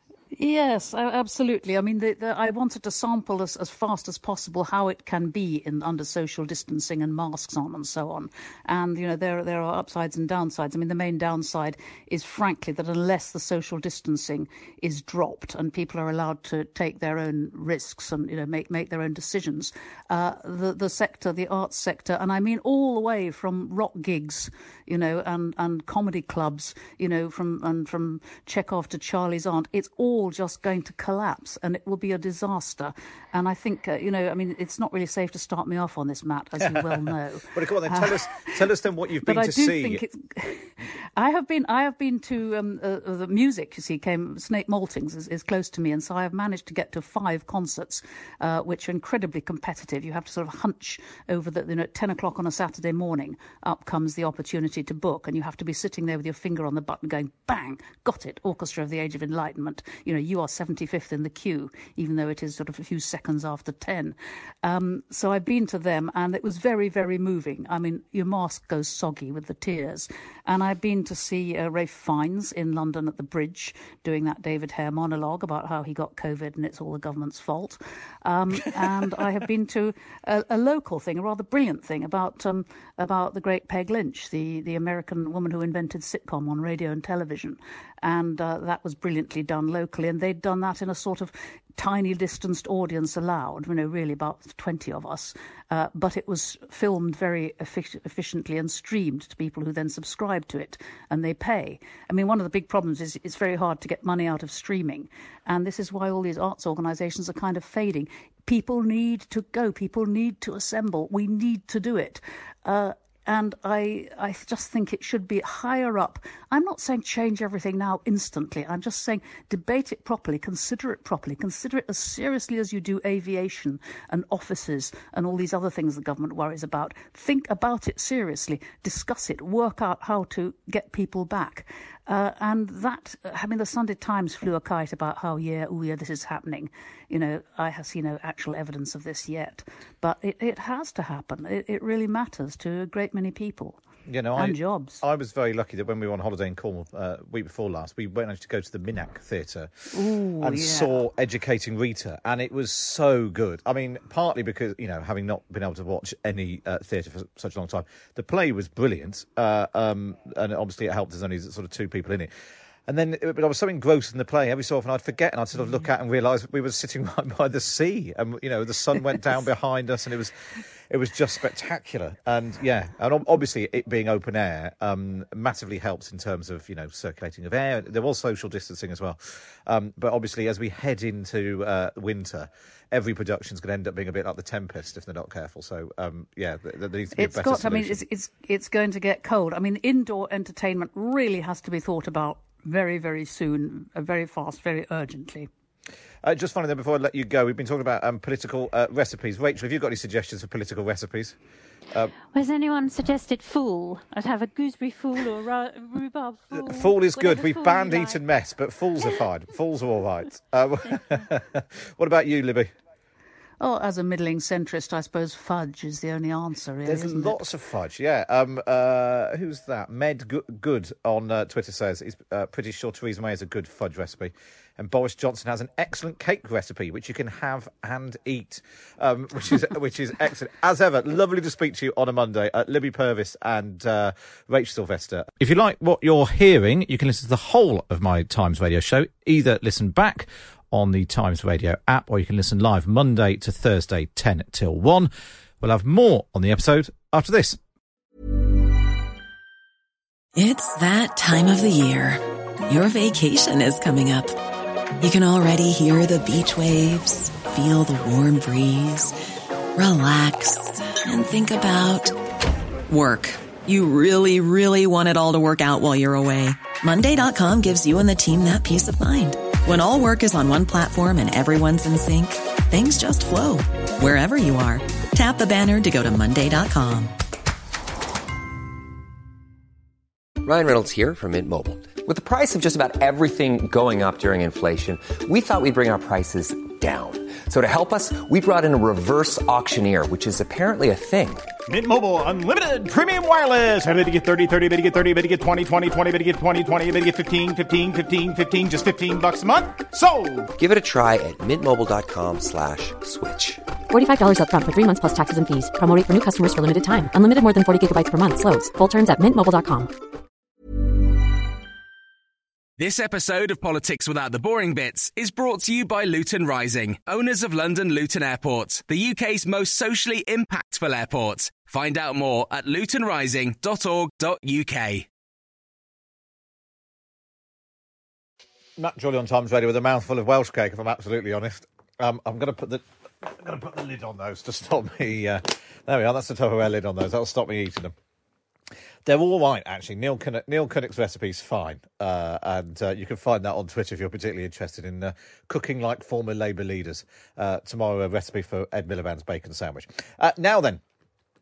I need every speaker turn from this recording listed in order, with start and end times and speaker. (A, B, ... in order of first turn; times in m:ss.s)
0:00.4-0:38.6 A
0:37.5-0:40.0 B
0:39.2-2:23.8 A
2:24.1-2:29.8 B
2:24.4-2:25.0 A
2:29.9-2:31.0 A
2:30.4-2:42.3 B
2:42.9-2:50.4 B
2:50.9-3:08.0 B
3:07.2-3:15.5 A
3:16.2-3:21.4 B
3:22.3-3:28.2 C
3:26.5-3:32.7 B
3:33.6-3:37.4 A
3:36.8-4:07.6 B
4:10.4-4:14.4 D
4:15.0-4:19.2 D
4:19.8-4:22.2 D
4:22.9-4:37.2 D
4:40.4-4:51.5 E
4:51.7-5:00.5 F
5:00.6-5:03.6 E
5:03.9-5:09.9 G
5:12.8-5:25.1 H
5:28.8-5:38.0 B
5:39.0-5:50.8 B